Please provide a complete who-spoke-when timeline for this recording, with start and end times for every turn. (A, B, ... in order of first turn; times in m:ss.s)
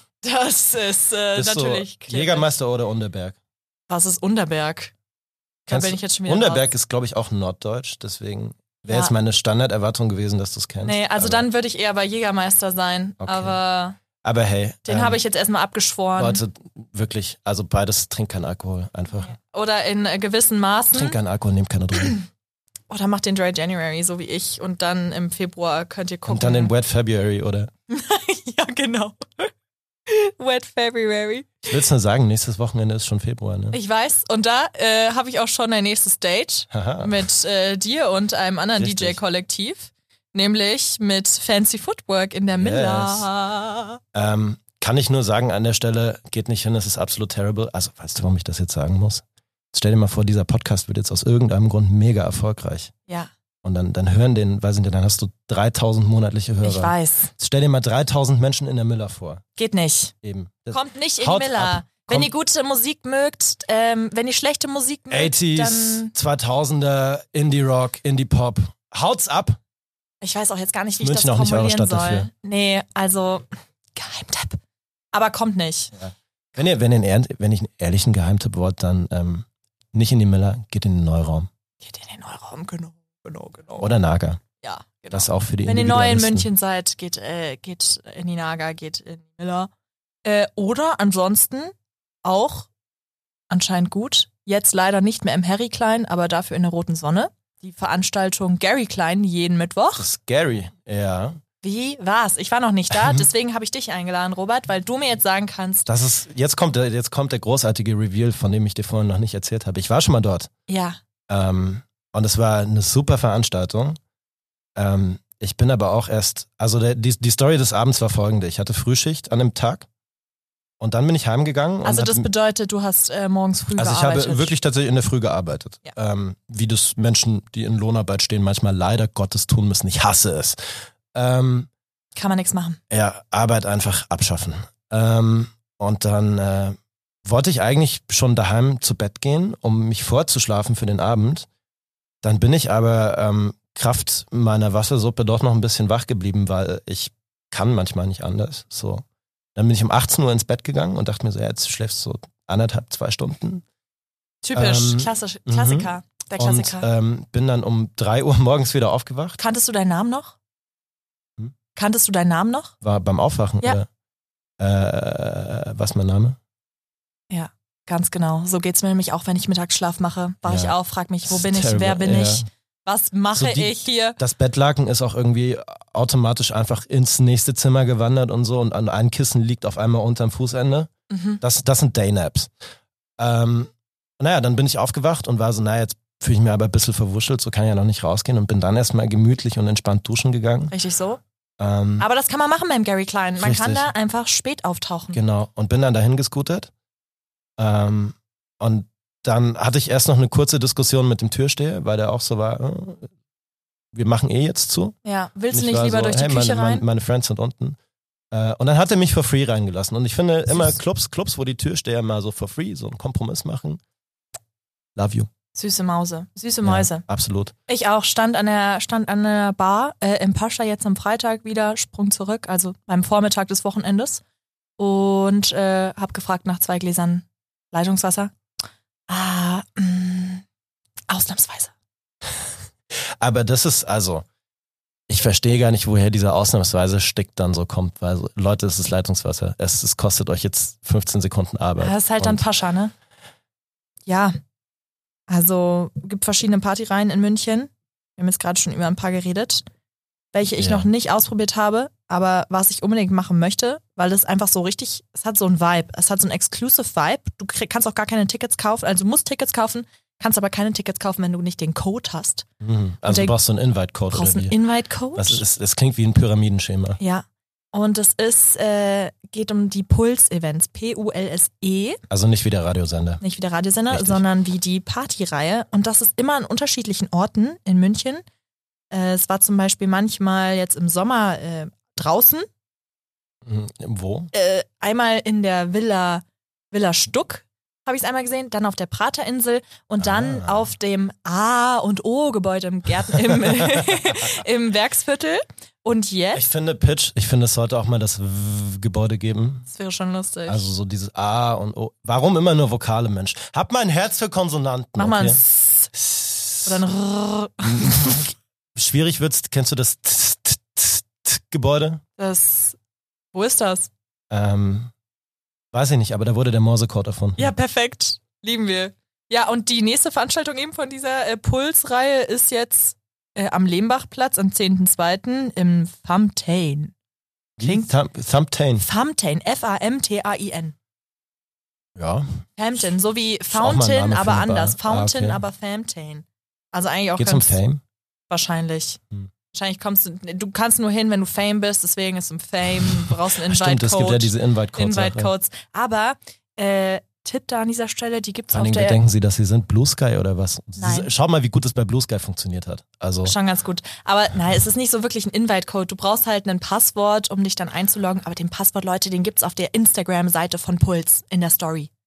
0:00.2-0:02.5 A
0:01.3-0:03.4 B
0:03.9-0:04.9 A
0:05.7-0:06.7 A
0:05.7-0:11.4 B
0:08.9-0:09.1 A
0:10.8-0:14.0 A
0:13.2-0:13.6 B
0:14.2-0:15.2 B
0:14.8-0:16.4 A
0:16.2-0:19.3 B
0:19.2-0:21.2 A
0:20.9-0:22.2 B
0:22.0-0:22.2 A
0:22.9-0:26.7 A
0:26.3-0:27.7 B
0:27.9-0:29.5 A
0:30.1-0:31.7 A
0:31.6-0:33.8 B
0:33.7-0:44.0 A
0:36.7-0:37.2 B
0:38.8-0:39.2 B
0:42.6-0:43.3 B
0:44.1-0:52.9 B
0:53.6-0:59.4 B
0:56.6-0:57.3 A
0:59.6-1:00.1 A
1:00.2-1:02.3 B
1:00.7-1:06.1 A
1:05.1-1:09.6 B
1:10.2-1:14.6 A
1:11.0-1:12.3 B
1:15.1-1:16.0 A
1:16.0-1:21.5 B
1:21.8-1:23.9 A
1:23.8-1:24.4 B
1:24.6-1:29.7 A
1:25.1-1:26.5 B
1:30.2-1:31.7 A
1:32.2-1:32.7 A
1:33.5-1:40.1 A
1:40.0-1:41.4 B
1:41.6-1:45.9 A
1:42.9-1:43.2 B
1:45.9-1:50.5 B
1:50.7-1:51.0 A
1:51.3-1:54.0 B
1:54.8-1:59.9 B
2:00.8-2:02.3 B
2:01.8-2:04.5 A
2:03.8-2:10.6 B
2:11.1-2:11.7 B
2:12.2-2:12.8 A
2:12.9-2:21.5 B
2:22.2-2:29.0 B
2:29.6-2:33.6 B
2:34.4-2:36.9 A
2:34.5-2:39.4 B
2:39.4-2:40.4 A
2:41.7-2:42.7 A
2:42.8-2:43.9 B
2:44.6-2:46.4 B
2:47.3-2:54.2 A
2:50.4-2:50.7 B
2:51.2-2:52.4 B
2:53.3-3:00.9 B
3:01.1-3:01.4 A
3:01.4-3:02.5 B
3:03.2-3:10.7 B
3:10.7-3:11.2 A
3:11.6-3:12.0 B
3:12.0-3:15.2 A
3:13.4-3:13.9 B
3:15.1-3:16.7 B
3:17.6-3:23.1 B
3:23.9-3:25.0 B
3:25.0-3:26.8 A
3:25.5-3:27.8 B
3:28.3-3:33.8 B
3:35.0-3:35.3 B
3:35.5-3:37.0 A
3:36.6-3:37.5 B
3:37.7-3:44.2 A
3:44.8-3:48.3 A
3:49.1-3:50.4 A
3:51.1-3:51.7 A
3:53.2-3:54.2 B
3:55.1-4:02.4 B
4:01.8-4:02.9 A
4:04.1-4:04.4 A
4:05.3-4:09.6 A
4:10.3-4:22.4 A
4:10.6-4:10.9 B
4:22.6-4:24.5 B
4:23.0-4:23.3 A
4:24.1-4:25.4 A
4:25.1-4:27.0 B
4:27.0-4:32.0 A
4:32.1-4:33.2 B
4:33.2-4:38.2 A
4:33.9-4:34.2 B
4:38.9-4:42.5 A
4:43.4-4:44.3 B
4:44.3-4:56.4 A
4:50.0-4:50.7 B
4:53.3-4:54.3 B
4:56.3-4:59.7 B
4:59.7-5:00.7 A
5:00.5-5:05.4 B
5:05.0-5:05.9 A
5:05.9-5:06.8 B
5:06.6-5:08.3 A
5:07.6-5:12.0 B
5:12.2-5:12.8 A
5:13.3-5:13.9 A
5:14.3-5:14.9 B
5:15.7-5:17.5 B
5:17.4-5:26.9 A
5:27.6-5:28.8 B
5:27.6-5:27.9 A
5:28.8-5:30.7 A
5:32.0-5:32.3 B
5:32.6-5:37.6 A
5:33.5-5:35.4 B
5:37.2-5:37.8 B
5:38.3-5:39.0 A
5:39.5-5:49.0 A
5:43.4-5:45.3 B
5:48.5-5:53.4 B
5:50.8-5:51.1 A
5:53.2-6:01.9 A